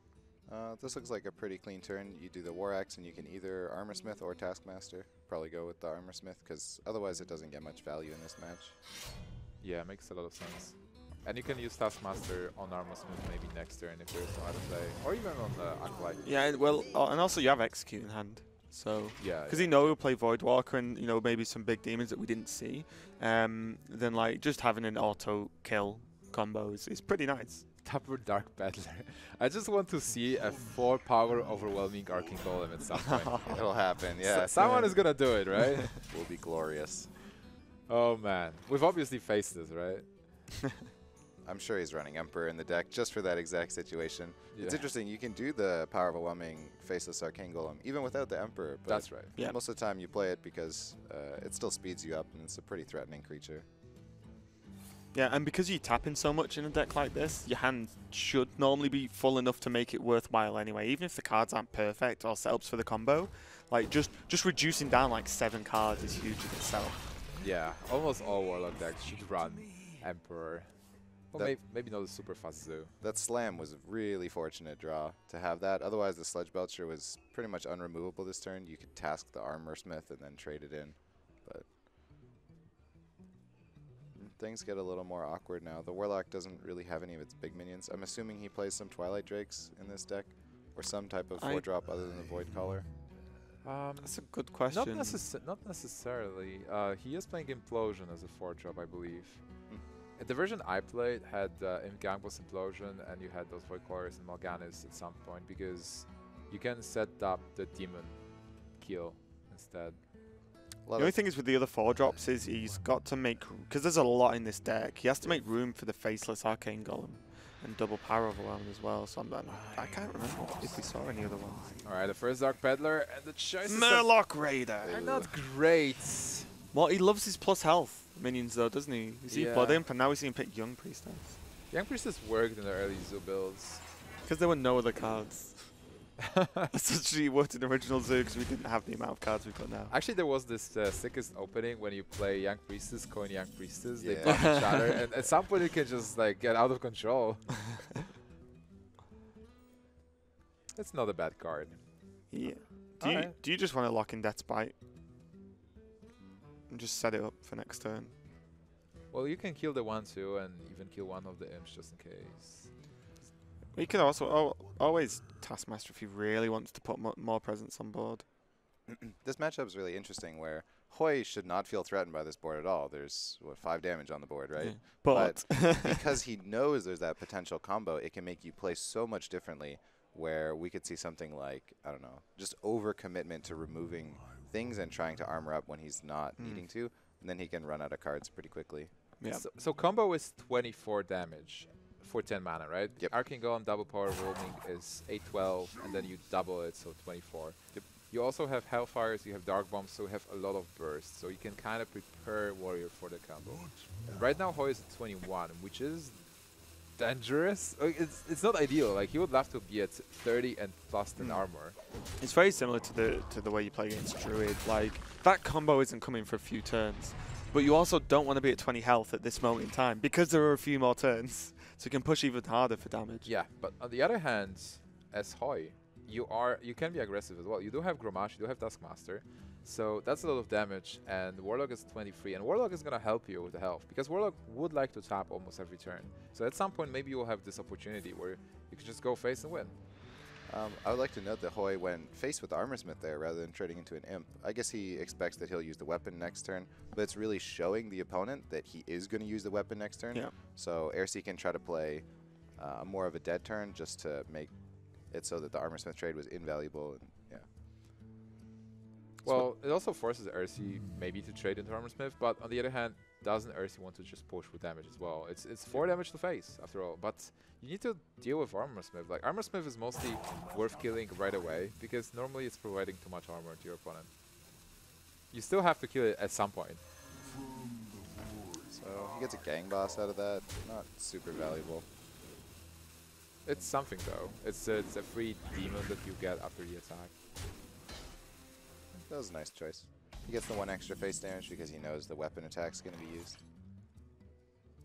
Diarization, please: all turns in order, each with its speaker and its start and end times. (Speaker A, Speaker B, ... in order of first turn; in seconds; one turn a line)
Speaker A: 0.5-8.8
Speaker B: 9.6-16.3
Speaker C: 16.2-27.6
Speaker B: 19.2-20.0
Speaker B: 27.8-36.0
Speaker C: 33.0-33.6
Speaker A: 33.4-35.0
Speaker C: 34.6-35.8
Speaker A: 36.1-37.1
Speaker B: 37.9-40.2
Speaker A: 41.4-53.6
Speaker B: 44.5-44.8
Speaker B: 48.9-49.3
Speaker C: 55.1-67.1
Speaker B: 67.3-72.9
Speaker A: 73.0-81.7
Speaker A: 84.1-92.9
Speaker C: 91.4-91.6
Speaker B: 93.6-110.0
Speaker C: 94.0-95.2
Speaker A: 110.8-111.2
Speaker C: 111.0-121.8
Speaker B: 121.8-124.2
Speaker C: 123.7-125.1
Speaker B: 124.8-126.5
Speaker A: 124.8-125.3
Speaker C: 126.7-131.4
Speaker B: 129.3-129.8
Speaker B: 131.7-133.8
Speaker C: 134.2-135.9
Speaker B: 136.3-136.7
Speaker C: 136.7-139.9
Speaker B: 139.9-147.9
Speaker A: 144.0-144.8
Speaker C: 144.2-144.8
Speaker B: 150.7-152.4
Speaker C: 152.3-154.7
Speaker B: 153.0-153.3
Speaker A: 156.2-156.4
Speaker C: 156.7-158.1
Speaker B: 159.1-162.7
Speaker C: 163.7-168.2
Speaker A: 168.9-188.9
Speaker C: 174.6-176.0
Speaker C: 186.4-186.6
Speaker B: 189.3-211.8
Speaker C: 211.2-223.3
Speaker B: 223.2-239.8
Speaker A: 240.4-257.5
Speaker B: 259.2-274.7
Speaker B: 275.3-276.8
Speaker A: 278.6-281.9
Speaker B: 283.4-287.1
Speaker A: 288.9-293.4